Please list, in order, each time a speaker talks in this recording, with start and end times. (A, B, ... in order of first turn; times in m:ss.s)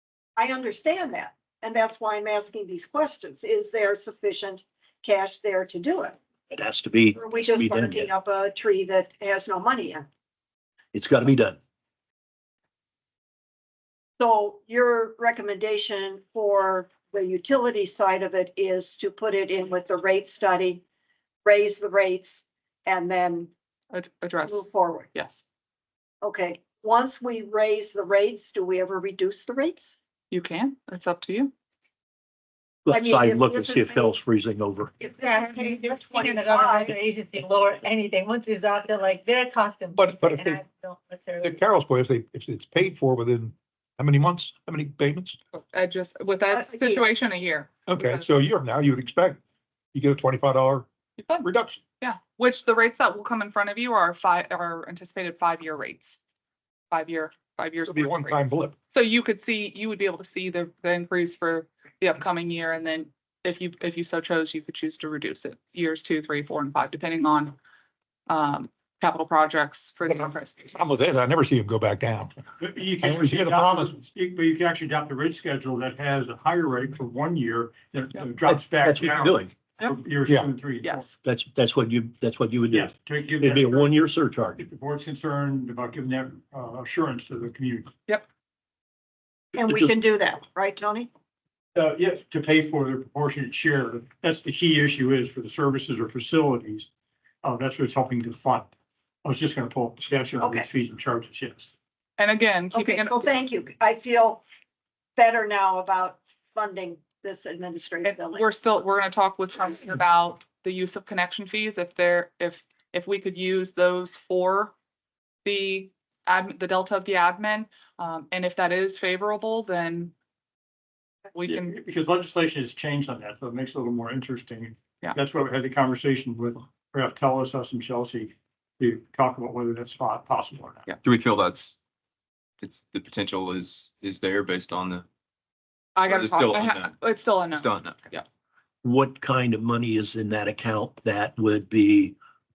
0:00.4-0:06.2 A
0:06.5-0:08.1 B
0:07.1-0:10.1 A
0:10.9-0:11.6 B
0:14.2-0:20.8 A
0:21.4-0:23.5 A
0:23.9-0:25.4 C
0:24.4-0:25.1 A
0:26.2-0:30.0 A
0:30.3-0:31.5 C
0:32.8-0:34.9 B
0:32.9-0:34.1 A
0:35.0-0:37.0 A
0:35.3-0:36.5 C
0:35.3-0:41.6 D
0:40.0-0:40.6 E
0:41.4-0:45.4 E
0:45.5-0:48.4 C
0:46.5-0:47.0 A
0:47.9-0:49.4 E
0:49.9-0:51.8 E
0:52.0-0:56.2 C
0:56.9-1:07.6 C
0:57.8-0:58.7 E
1:08.3-1:10.7 C
1:10.1-1:12.4 E
1:12.6-1:21.1 F
1:13.0-1:14.0 E
1:18.4-1:19.5 B
1:20.2-1:20.5 E
1:20.8-1:21.2 C
1:21.2-1:24.6 B
1:22.7-1:24.0 F
1:24.6-1:27.9 F
1:29.5-1:29.9 B
1:29.6-1:31.1 A
1:31.7-1:36.9 F
1:37.4-1:38.7 F
1:39.2-1:41.7 F
1:40.4-1:40.7 A
1:42.2-1:43.4 C
1:42.7-1:44.4 A
1:45.2-1:48.5 A
1:48.0-1:54.7 C
1:55.4-2:00.1 C
2:01.3-2:01.7 C
2:01.5-2:10.8 F
2:11.0-2:11.8 G
2:12.6-2:15.0 G
2:16.0-2:18.2 C
2:16.0-2:18.1 G
2:18.8-2:22.2 B